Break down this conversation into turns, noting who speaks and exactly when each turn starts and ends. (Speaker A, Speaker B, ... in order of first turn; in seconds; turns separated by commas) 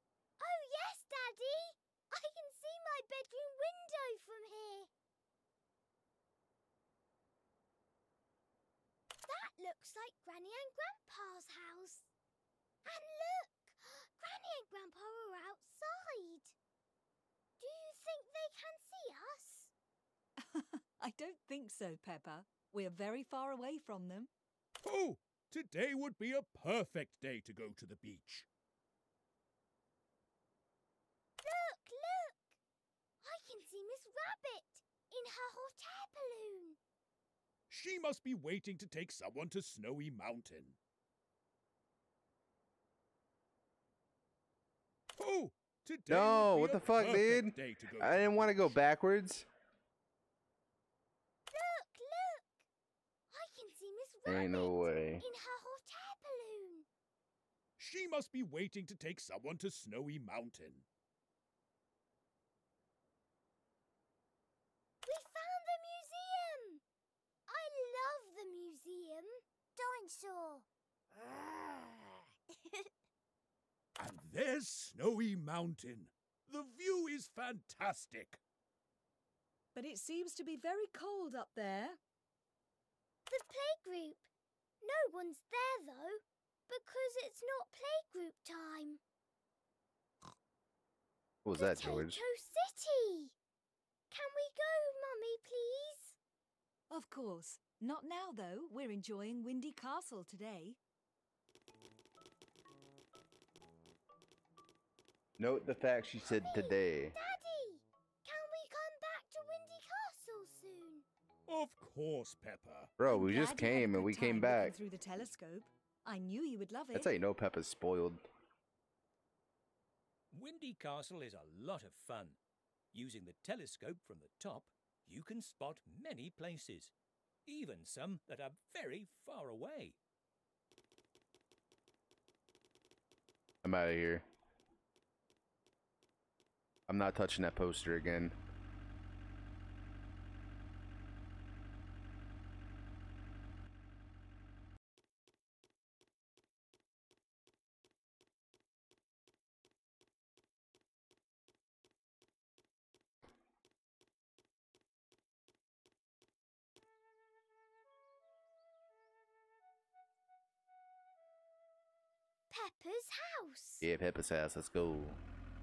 Speaker A: 0.4-4.9, Speaker A: 9.3-12.1, Speaker A: 12.8-16.6, Speaker A: 17.6-19.7, Speaker B: 20.4-24.3, Speaker C: 24.8-28.5, Speaker A: 31.4-32.6, Speaker A: 33.2-36.8, Speaker C: 37.7-40.8, Speaker C: 45.2-48.8, Speaker D: 46.1-49.5, Speaker A: 51.5-52.6, Speaker A: 53.3-56.9, Speaker D: 54.3-55.2, Speaker C: 57.8-60.9, Speaker A: 65.0-66.8, Speaker A: 67.5-70.7, Speaker C: 74.0-78.4, Speaker B: 79.7-82.0, Speaker A: 83.3-84.3, Speaker A: 84.8-89.0, Speaker D: 91.4-92.2, Speaker A: 91.5-93.3, Speaker A: 94.1-96.2, Speaker B: 96.9-100.8, Speaker D: 105.4-107.2, Speaker A: 106.2-111.0, Speaker C: 111.5-112.9, Speaker D: 113.0-114.8, Speaker B: 113.0-117.1, Speaker D: 116.9-118.2, Speaker E: 120.3-122.4, Speaker E: 122.9-126.9, Speaker E: 127.5-130.0, Speaker D: 133.6-134.3, Speaker D: 136.9-138.3, Speaker A: 162.5-163.9, Speaker D: 163.8-165.2